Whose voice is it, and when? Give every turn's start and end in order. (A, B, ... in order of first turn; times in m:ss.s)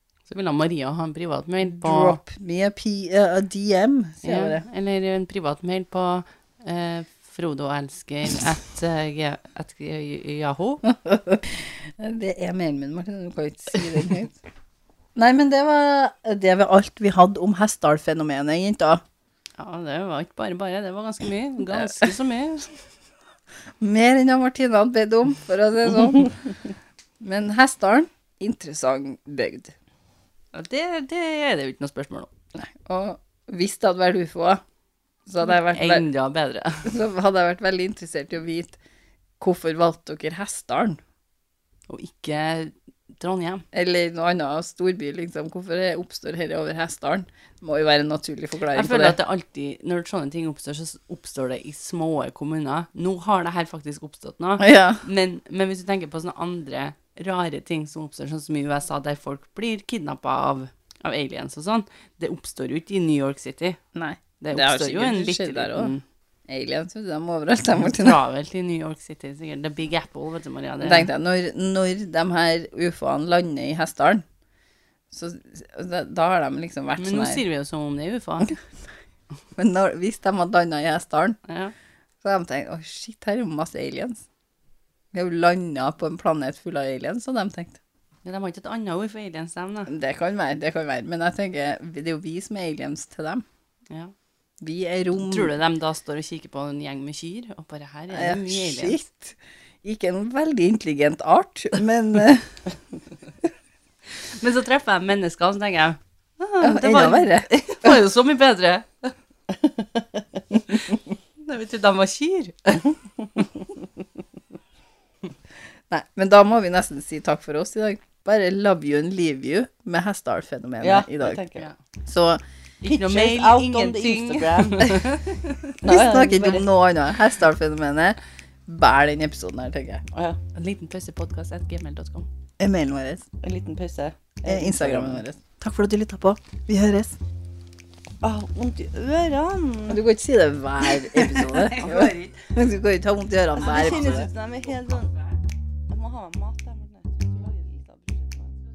0:00.3-0:02.2 A
0:01.7-0:04.6 B
0:04.2-0:10.8 A
0:10.8-0:14.4 B
0:15.2-0:19.0 B
0:19.6-0:22.7 A
0:21.7-0:22.1 B
0:23.8-0:26.4 B
0:27.2-0:29.7 B
0:30.5-0:32.3 A
0:32.6-0:34.6 B
0:35.3-0:36.0 B
0:35.4-0:36.9 A
0:36.8-0:38.8 B
0:39.4-0:41.0 B
0:41.9-0:43.6 A
0:43.7-0:49.2 B
0:48.7-1:03.8 A
0:54.6-0:55.0 B
1:04.0-1:05.9 B
1:04.4-1:06.0 A
1:06.5-1:08.2 B
1:07.8-1:11.1 A
1:10.8-1:14.2 B
1:15.1-1:17.4 B
1:17.0-1:18.6 A
1:19.6-1:21.4 B
1:21.5-1:21.7 A
1:22.2-1:24.2 B
1:25.1-1:27.8 B
1:28.2-1:29.9 A
1:29.9-1:33.4 B
1:34.6-1:35.5 B
1:35.2-1:39.0 A
1:38.1-1:42.6 B
1:44.4-1:49.1 A
1:46.6-1:47.9 B
1:49.7-1:50.2 C
1:50.7-1:51.0 B
1:51.4-1:52.9 A
1:55.9-2:01.4 B
2:00.8-2:01.7 C
2:02.1-2:02.4 B
2:02.8-2:05.7 A
2:02.8-2:05.0 C
2:05.8-2:06.7 C
2:05.8-2:10.0 B
2:10.1-2:10.4 C
2:10.6-2:12.3 A
2:12.6-2:13.2 B
2:13.4-2:15.2 C
2:14.4-2:17.2 B
2:18.2-2:20.0 C
2:19.9-2:24.3 B
2:21.0-2:22.5 A
2:21.8-2:22.1 C
2:23.6-2:25.1 C
2:23.6-2:25.4 A
2:25.9-2:28.6 C